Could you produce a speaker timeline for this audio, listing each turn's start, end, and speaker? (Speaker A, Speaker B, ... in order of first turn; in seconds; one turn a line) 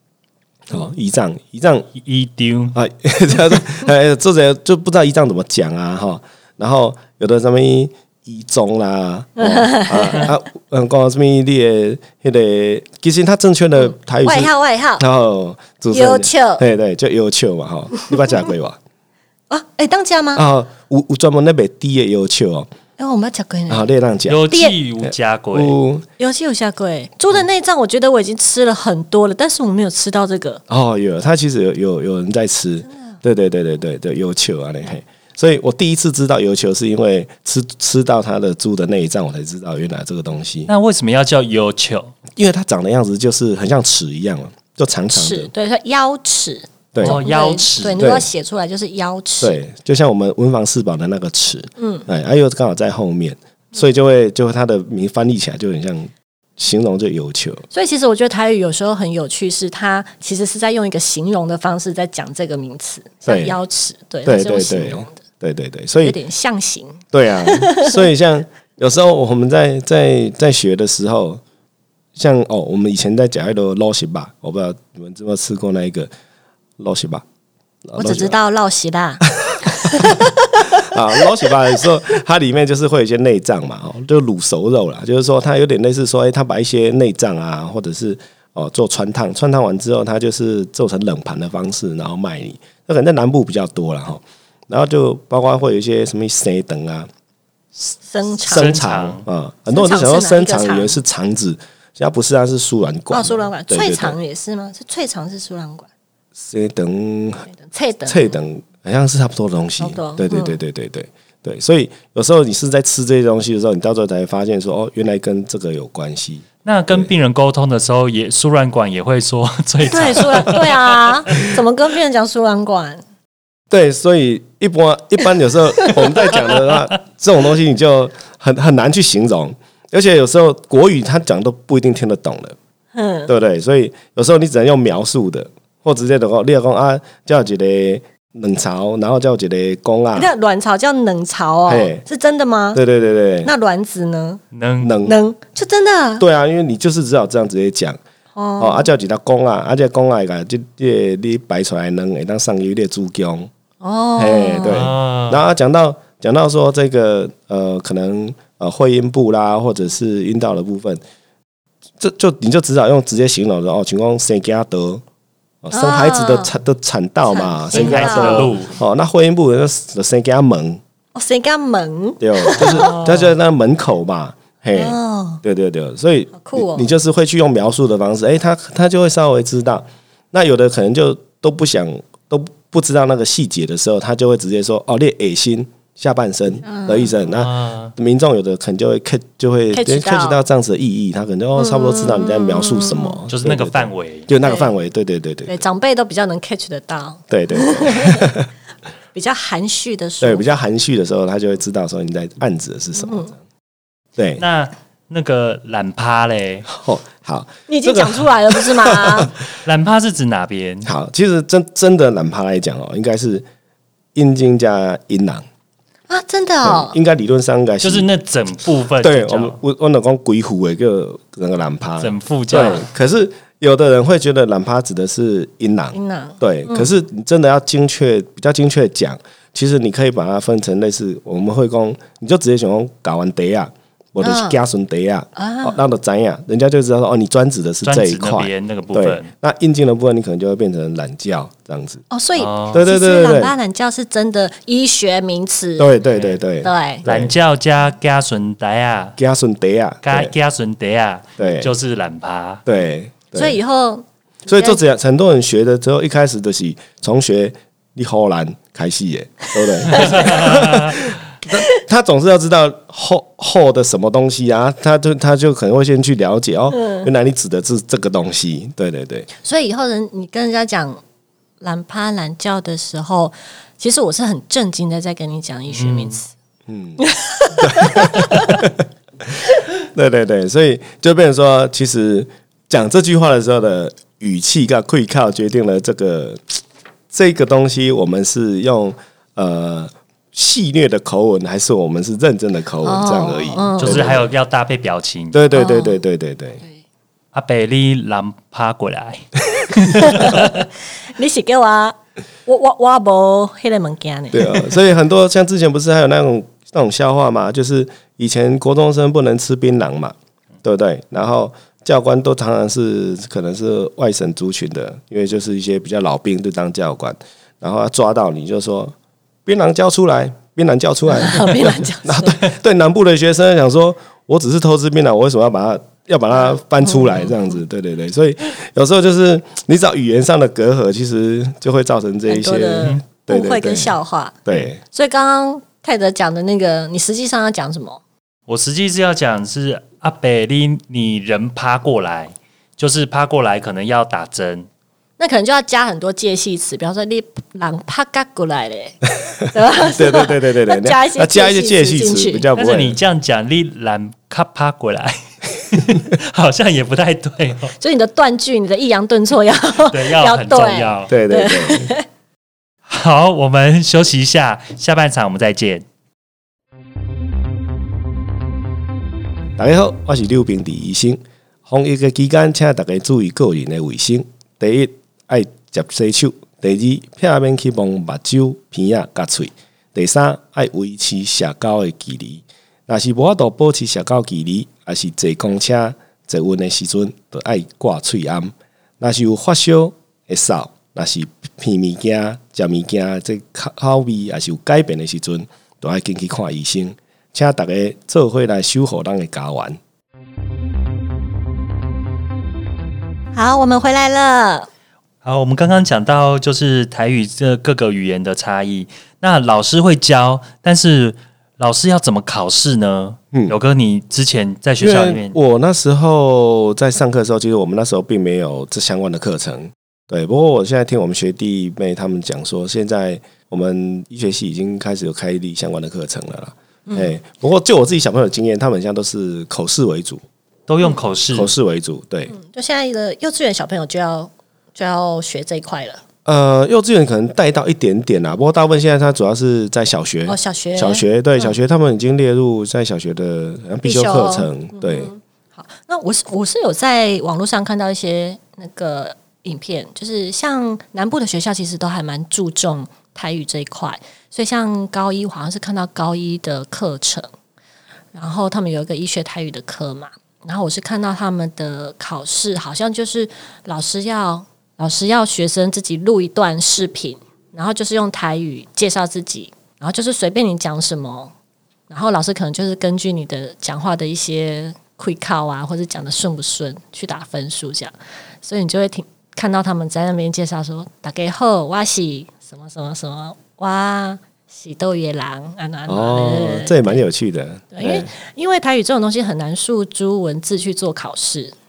Speaker A: 0.7-1.9
Speaker B: 1.9-2.8
Speaker A: 2.8-18.8
Speaker C: 9.4-10.3
Speaker C: 13.8-15.0
Speaker C: 15.9-16.6
Speaker C: 19.5-20.4
Speaker A: 20.4-22.7
Speaker C: 23.0-23.9
Speaker A: 23.7-24.5
Speaker B: 24.3-25.8
Speaker C: 24.5-24.8
Speaker A: 25.0-26.1
Speaker C: 26.2-30.6
Speaker A: 30.7-40.7
Speaker B: 40.7-42.1
Speaker A: 42.4-45.5
Speaker C: 45.1-49.6
Speaker A: 46.9-47.2
Speaker B: 47.0-48.1
Speaker A: 48.0-48.3
Speaker A: 49.4-57.6
Speaker C: 51.8-52.1
Speaker C: 57.7-65.2
Speaker A: 63.3-63.6
Speaker A: 64.2-66.2
Speaker C: 66.0-68.0
Speaker A: 67.1-71.4
Speaker A: 72.2-76.1
Speaker A: 76.8-77.2
Speaker A: 77.8-78.3
Speaker C: 78.0-80.9
Speaker A: 79.4-97.1
Speaker C: 98.0-98.7
Speaker A: 98.5-104.2
Speaker B: 98.5-99.3
Speaker C: 99.7-101.0
Speaker C: 103.1-105.9
Speaker A: 106.4-107.5
Speaker C: 107.5-108.3
Speaker A: 108.1-117.1
Speaker C: 109.8-110.6
Speaker B: 116.7-121.5
Speaker C: 119.9-123.0
Speaker A: 123.7-132.6
Speaker C: 132.9-133.3
Speaker A: 133.3-140.3
Speaker C: 140.2-142.8
Speaker A: 141.7-142.0
Speaker A: 142.7-143.5
Speaker C: 143.4-144.4
Speaker B: 144.5-145.0
Speaker A: 144.8-145.2
Speaker C: 145.0-146.2
Speaker A: 146.2-148.0
Speaker C: 148.3-148.9
Speaker A: 148.6-153.5
Speaker C: 153.8-154.9
Speaker A: 154.2-161.0
Speaker B: 154.6-155.4
Speaker A: 162.0-165.0
Speaker A: 165.6-170.8
Speaker C: 165.7-166.5
Speaker C: 167.3-168.5
Speaker B: 167.7-168.8
Speaker C: 171.2-173.0
Speaker A: 172.2-195.6
Speaker B: 172.6-173.3
Speaker C: 174.7-175.4
Speaker C: 176.3-176.9
Speaker C: 186.6-187.1
Speaker B: 187.3-187.9
Speaker C: 189.7-190.4
Speaker C: 191.6-193.2
Speaker B: 193.3-194.3
Speaker C: 194.4-194.7
Speaker C: 195.5-198.4
Speaker A: 197.3-198.5
Speaker C: 199.1-200.5
Speaker A: 200.2-203.4
Speaker C: 203.0-203.3
Speaker A: 204.2-204.4
Speaker B: 204.4-206.7
Speaker A: 206.7-209.4
Speaker C: 207.7-209.3
Speaker B: 209.6-210.9
Speaker A: 210.8-213.4
Speaker A: 214.2-215.5
Speaker C: 216.1-217.0
Speaker A: 216.6-218.1
Speaker B: 217.8-219.6
Speaker A: 219.0-242.0
Speaker B: 222.0-222.8
Speaker C: 225.9-226.9
Speaker C: 234.2-234.6
Speaker C: 235.4-235.8
Speaker B: 237.8-239.3
Speaker C: 242.1-245.9
Speaker B: 242.4-242.9
Speaker A: 242.7-243.5
Speaker A: 245.8-247.3
Speaker B: 246.1-246.4
Speaker C: 246.6-247.0
Speaker B: 247.1-249.2
Speaker A: 249.2-250.3
Speaker B: 250.0-252.6
Speaker A: 251.4-251.7
Speaker A: 252.7-253.6
Speaker C: 253.3-254.8
Speaker A: 254.5-269.3
Speaker C: 259.6-260.7
Speaker B: 259.9-261.0
Speaker C: 266.7-267.1
Speaker C: 269.4-271.0
Speaker C: 271.6-276.3
Speaker B: 275.7-276.1
Speaker A: 276.7-277.0
Speaker C: 277.0-278.7
Speaker A: 277.6-286.6
Speaker A: 287.1-294.3
Speaker C: 292.8-294.1
Speaker B: 293.8-295.4
Speaker A: 295.3-296.6
Speaker C: 295.5-296.0
Speaker B: 297.3-300.7
Speaker C: 300.0-304.8
Speaker A: 304.3-318.9
Speaker A: 319.5-334.8
Speaker C: 321.1-322.4
Speaker C: 326.9-327.3
Speaker C: 332.3-338.0
Speaker B: 338.5-344.7
Speaker C: 345.2-352.5
Speaker A: 349.8-353.0
Speaker B: 352.6-357.7
Speaker C: 357.8-362.1
Speaker B: 359.9-361.1
Speaker A: 361.1-361.9
Speaker B: 362.9-365.9
Speaker A: 369.6-399.8
Speaker C: 403.3-404.7
Speaker B: 405.2-415.4
Speaker A: 414.8-430.2
Speaker C: 426.9-427.1
Speaker B: 430.7-431.5
Speaker A: 431.3-432.3
Speaker C: 432.3-436.0
Speaker A: 436.2-445.1
Speaker C: 440.3-441.1
Speaker C: 443.8-457.3
Speaker C: 458.1-471.3
Speaker C: 471.9-487.0
Speaker A: 485.9-488.1
Speaker C: 487.7-491.6